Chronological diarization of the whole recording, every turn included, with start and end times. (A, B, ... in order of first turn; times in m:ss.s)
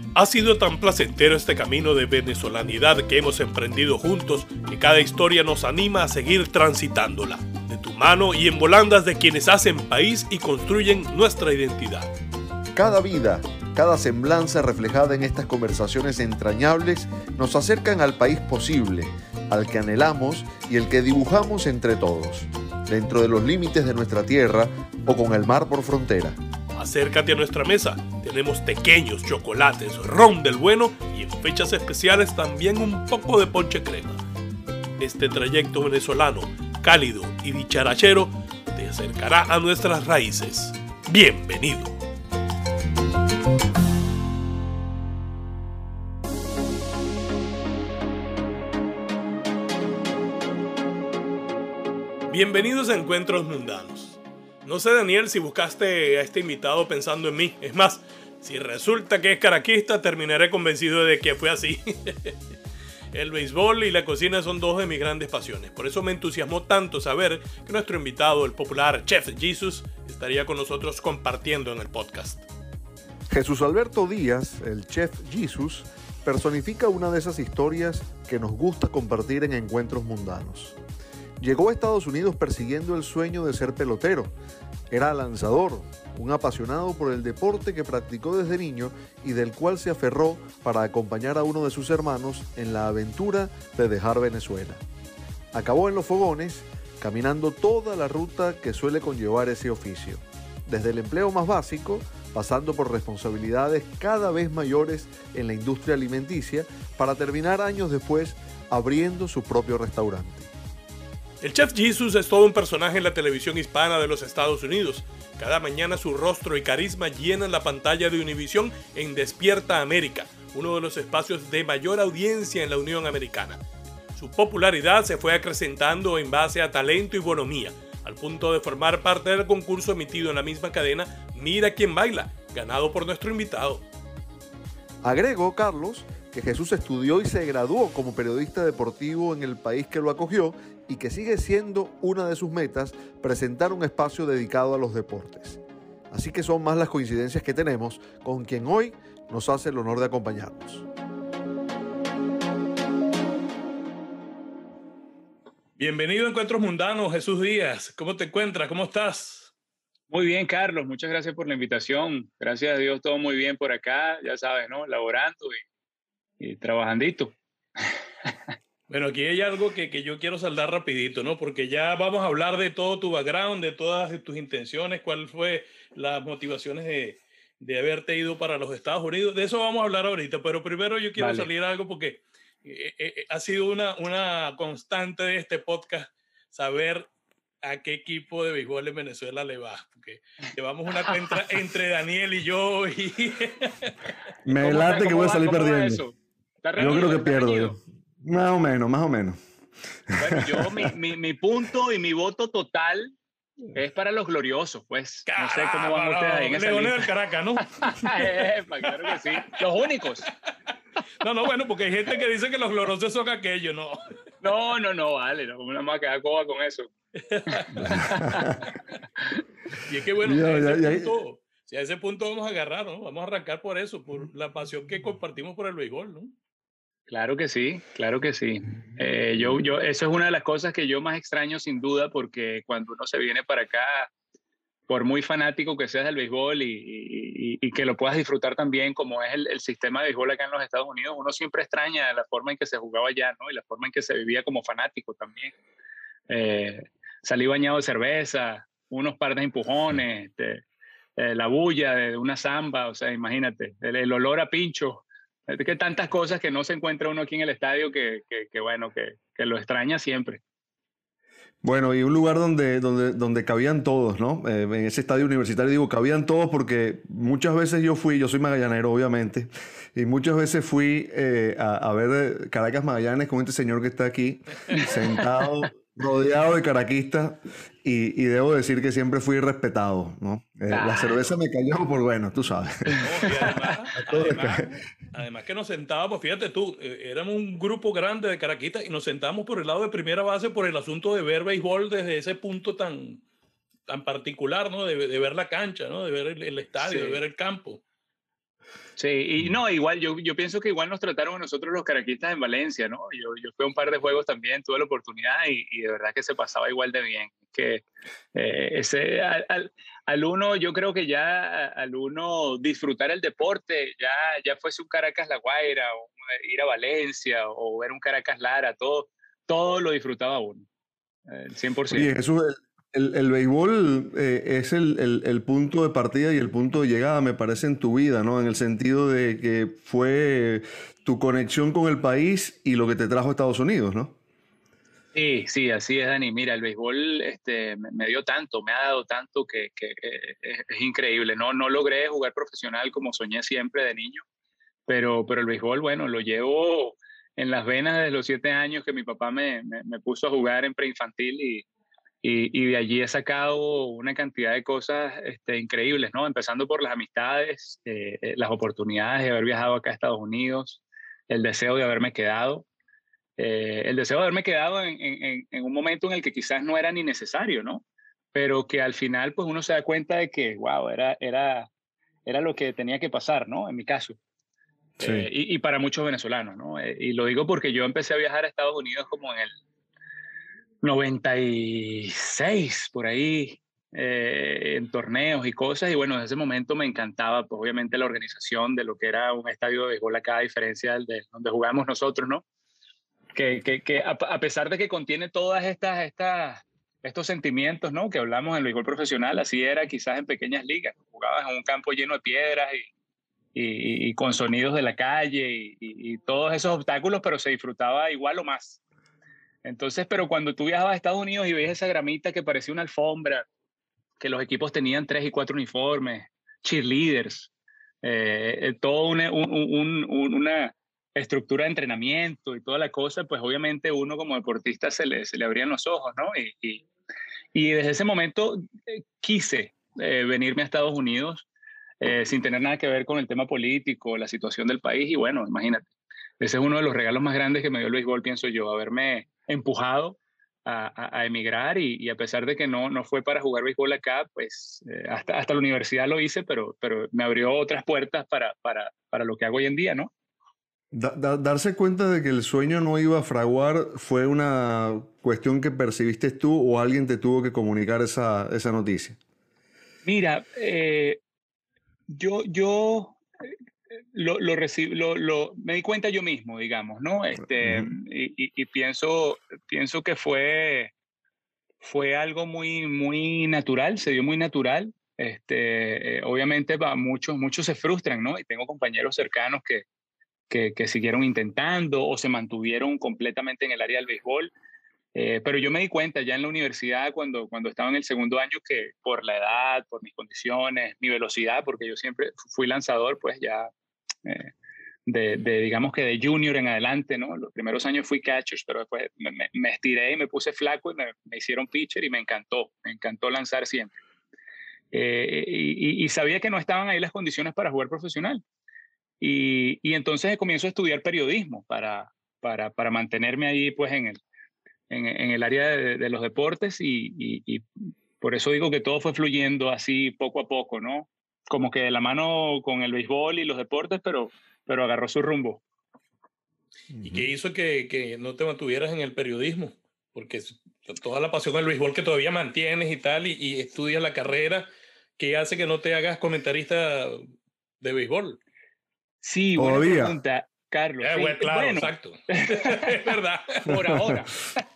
0:00.2-0:12.1 A
0:12.8-0:26.4 B
0:26.8-0:34.2 A
0:35.0-0:42.0 A
0:52.3-1:02.4 A
1:03.1-1:12.5 A
1:13.3-1:20.8 B
1:21.4-1:24.3 B
1:24.9-1:34.8 B
1:35.5-1:50.5 B
1:51.4-2:03.6 A
2:04.2-2:13.8 A
2:15.0-2:30.9 B
2:35.8-2:39.5 A
2:40.1-2:45.6 C
2:46.4-2:47.4 C
2:48.9-3:07.1 A
3:01.2-3:01.5 C
3:07.6-3:13.9 A
3:14.4-3:16.0 B
3:14.6-3:17.8 C
3:16.8-3:19.4 B
3:20.1-3:20.9 B
3:20.2-3:23.2 C
3:23.7-3:27.1 C
3:25.3-3:29.6 A
3:27.8-3:30.3 C
3:31.2-3:34.0 A
3:34.4-3:36.9 C
3:37.3-3:38.1 A
3:37.6-3:38.4 C
3:37.8-3:38.5 B
3:39.8-3:46.3 A
3:40.2-3:41.1 B
3:47.1-3:54.1 C
3:54.9-4:05.6 C
4:06.3-4:10.6 C
4:11.2-4:20.4 C
4:21.6-4:43.3 B
4:40.7-4:41.1 C
4:43.0-4:53.2 A
4:44.0-4:44.7 B
4:53.9-4:57.8 A
4:56.8-4:57.2 C
4:59.0-5:20.7 C
5:21.3-5:22.1 C
5:21.9-5:34.2 B
5:35.1-5:44.2 C
5:44.9-5:51.7 C
5:52.2-6:02.7 C
6:03.4-6:11.7 C
6:12.3-6:14.2 C
6:15.0-6:15.3 B
6:15.0-6:19.5 C
6:20.8-6:32.4 C
6:33.4-6:42.9 C
6:43.6-6:48.8 C
6:49.6-6:53.4 C
6:54.2-6:57.5 C
6:58.0-7:06.9 C
7:07.5-7:11.5 C
7:12.0-7:15.9 C
7:16.4-7:30.1 C
7:30.9-7:39.2 B
7:40.0-7:41.2 C
7:42.1-7:43.5 C
7:44.1-7:50.9 C
7:47.6-7:47.9 B
7:51.8-7:59.8 C
8:00.5-8:04.5 C
8:05.2-8:13.7 C
8:14.2-8:14.5 C
8:15.1-8:24.0 C
8:24.9-8:28.4 C
8:29.2-8:34.2 C
8:34.9-8:37.6 C
8:38.2-8:45.6 C
8:46.9-8:47.3 B
8:47.0-8:54.7 A
8:55.2-8:57.3 A
8:57.8-8:58.4 A
8:59.2-9:03.1 C
8:59.6-9:00.2 B
9:01.0-9:03.9 A
9:03.7-9:04.6 C